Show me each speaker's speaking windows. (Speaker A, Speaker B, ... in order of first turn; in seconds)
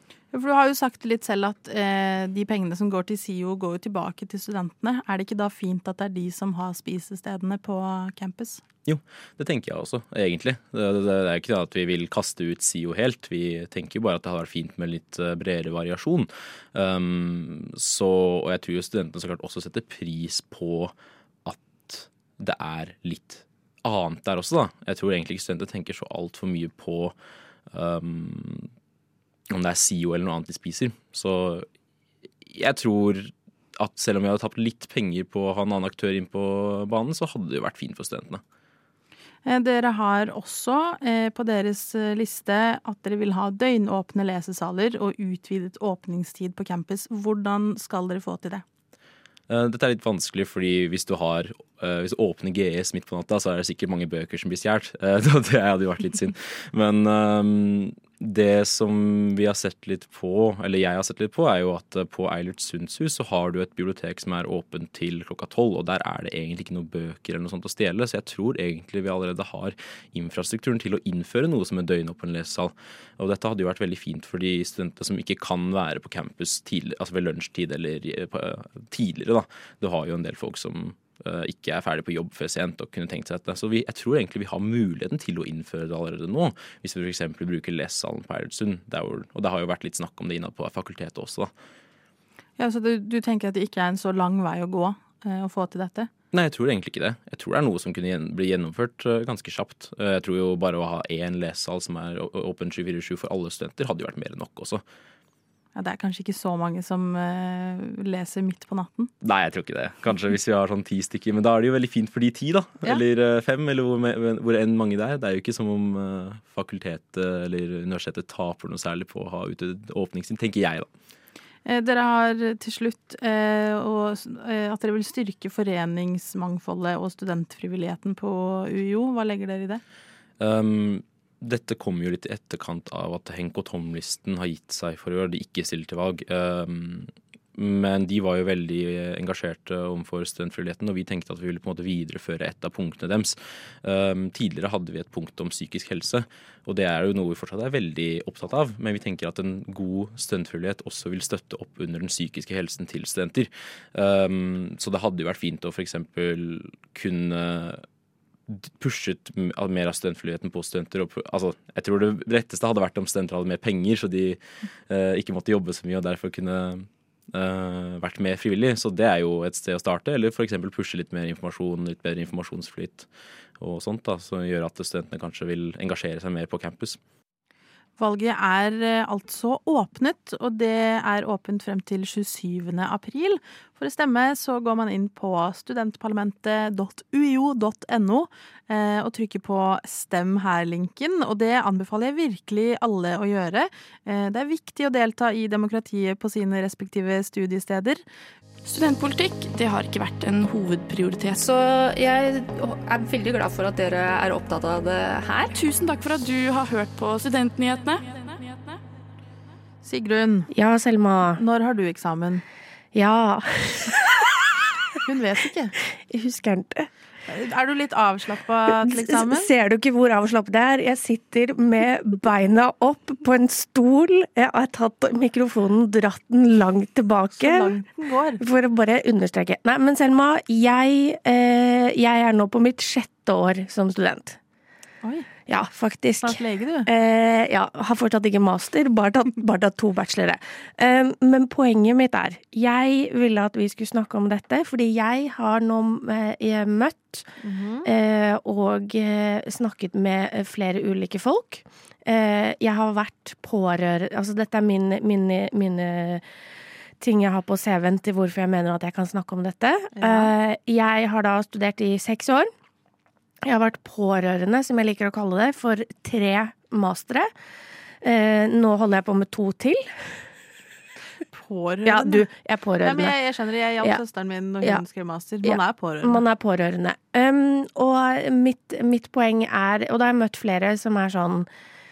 Speaker A: 0.3-8.6, 39.5-48.6, 92.6-96.1, 105.7-109.1, 121.7-129.8, 178.0-198.0, 209.8-210.5, 211.4-212.4, 215.0-215.8, 217.3-219.5, 227.3-228.4, 235.0-235.3, 236.2-236.9, 247.4-247.8, 260.0-260.3, 271.3-272.3, 272.8-276.2
Speaker B: 8.8-20.9, 21.4-27.1, 27.7-28.7, 29.5-31.7, 32.4-38.4, 49.5-91.5, 96.3-104.8, 109.2-120.9, 130.4-157.8, 158.5-173.1, 173.6-177.0
Speaker C: 198.6-201.4, 205.5-208.7
Speaker D: 201.4-205.5
Speaker E: 210.5-211.4, 212.9-214.2, 215.9-216.9, 218.7-227.7, 228.4-234.4, 235.5-247.3, 247.8-256.2, 257.0-262.5, 263.4-267.3, 268.0-270.2, 271.8-273.1, 275.4-281.5